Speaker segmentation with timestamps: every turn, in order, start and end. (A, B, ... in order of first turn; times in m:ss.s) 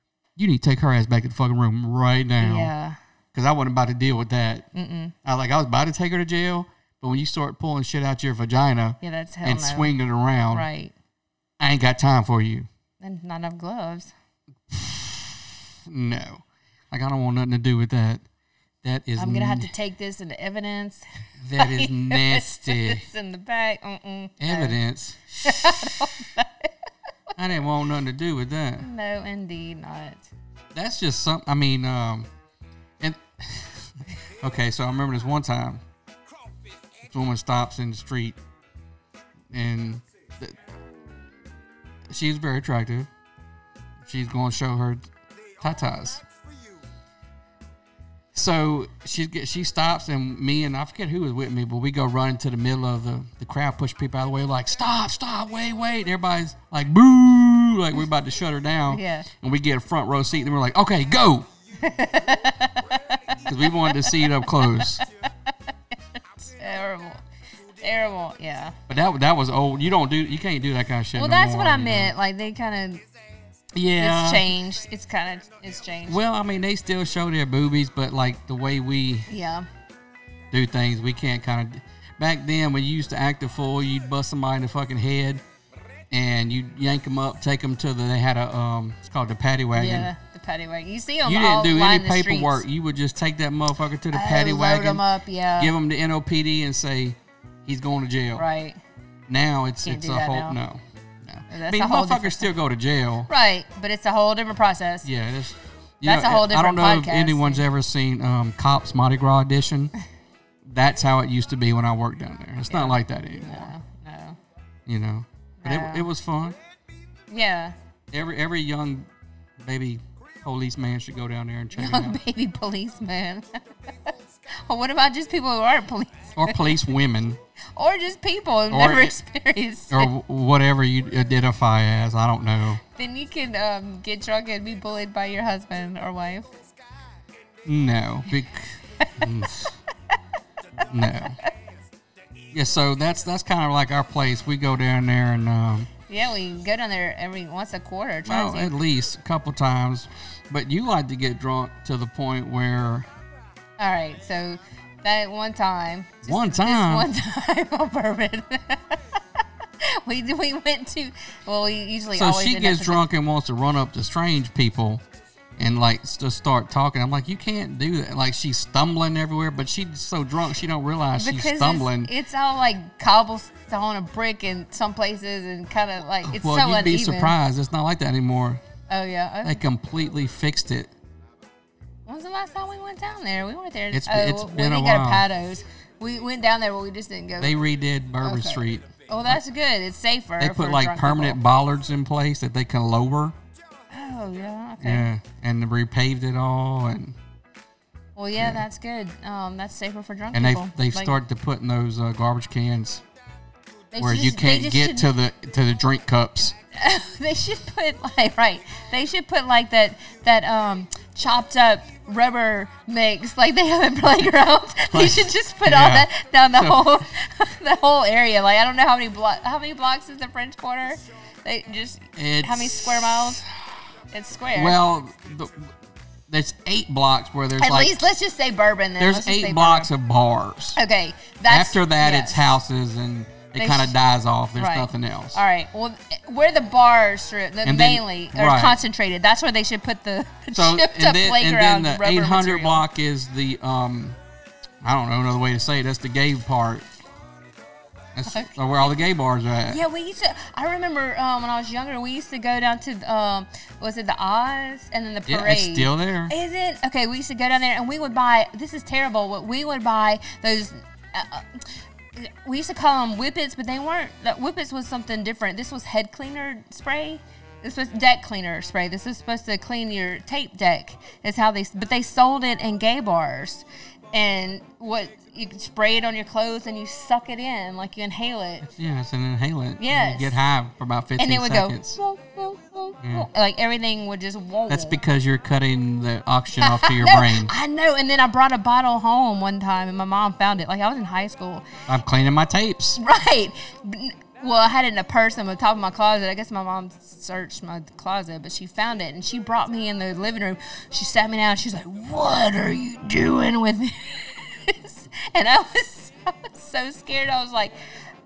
0:00.4-0:02.7 A
0:02.4-0:03.0 B
0:03.3-0:04.7 A
0:04.7-0:05.1 B
0:05.2-0:10.7 A
0:09.0-0:09.9 B
0:10.5-0:10.9 B
0:11.6-0:12.7 A
0:13.0-0:14.1 B
0:14.7-0:18.2 A
0:18.8-0:19.7 A
0:19.2-0:21.0 B
0:21.4-0:23.0 A
0:21.6-0:24.8 B
0:24.4-0:26.1 A
0:25.4-0:26.7 B
0:27.4-0:28.9 A
0:28.8-0:30.3 B
0:30.7-0:32.3 A
0:33.0-0:35.8 A
0:37.0-0:38.4 A
0:39.5-0:40.6 A
0:42.1-0:43.1 A
0:44.0-0:46.2 A
0:48.3-1:01.5 A
0:58.9-0:59.3 B
1:01.8-1:05.5 B
1:03.4-1:05.0 A
1:06.4-1:07.2 B
1:07.8-1:08.8 B
1:08.9-1:12.1 A
1:11.1-1:13.0 B
1:13.7-1:14.6 A
1:14.0-1:16.2 B
1:16.1-1:19.3 A
1:19.3-1:19.6 B
1:20.5-1:25.4 A
1:26.1-1:30.1 A
1:29.7-1:32.6 B
1:31.2-1:35.0 A
1:34.1-1:35.7 B
1:35.6-1:38.5 A
1:38.4-1:38.8 B
1:39.3-1:43.3 A
1:39.8-1:40.6 B
1:41.5-1:42.5 B
1:43.3-1:45.1 B
1:45.0-1:49.9 A
1:46.0-1:47.6 B
1:50.6-1:53.7 A
1:52.7-1:54.4 B
1:54.9-1:56.6 A
1:55.6-1:56.1 B
1:57.3-1:57.7 B
1:58.1-2:02.2 A
2:01.7-2:06.7 B
2:06.4-2:07.4 A
2:07.7-2:10.1 B
2:08.7-2:09.2 A
2:09.9-2:12.8 A
2:12.9-2:16.5 B
2:17.6-2:19.8 A
2:20.9-2:21.4 A
2:22.5-2:25.9 A
2:26.1-2:28.7 B
2:28.2-2:33.1 A
2:33.8-2:39.0 B
2:36.2-2:37.1 A
2:39.8-2:43.1 B
2:42.1-2:45.0 A
2:45.6-2:52.1 A
2:51.1-2:57.4 B
2:56.2-2:58.6 A
2:58.9-2:59.6 B
2:59.4-3:00.9 A
3:02.0-3:07.6 B
3:03.9-3:05.3 A
3:07.4-3:09.4 A
3:08.2-3:11.4 B
3:10.4-3:13.4 A
3:13.9-3:15.1 B
3:14.8-3:17.2 A
3:18.2-3:21.2 B
3:18.4-3:18.6 A
3:20.3-3:23.0 A
3:23.9-3:25.1 B
3:24.0-3:26.5 A
3:26.7-3:43.4 B
3:34.9-3:36.9 A
3:42.2-3:43.8 A
3:44.1-3:44.8 B
3:44.5-3:45.7 A
3:46.3-3:48.0 A
3:47.6-3:49.9 B
3:49.0-3:50.8 A
3:50.8-3:52.6 B
3:51.4-3:55.4 A
3:53.6-3:53.9 B
3:54.6-4:02.8 B
3:57.6-3:58.8 A
4:00.5-4:04.2 A
4:04.8-4:06.8 A
4:08.1-4:09.8 A
4:08.3-4:09.0 B
4:09.6-4:38.7 B
4:15.2-4:16.3 A
4:38.7-4:42.0 A
4:39.8-4:40.4 B
4:41.2-4:45.0 B
4:43.0-4:43.3 A
4:44.7-4:47.5 A
4:46.6-4:51.7 B
4:51.9-4:53.0 A
4:53.0-5:07.7 B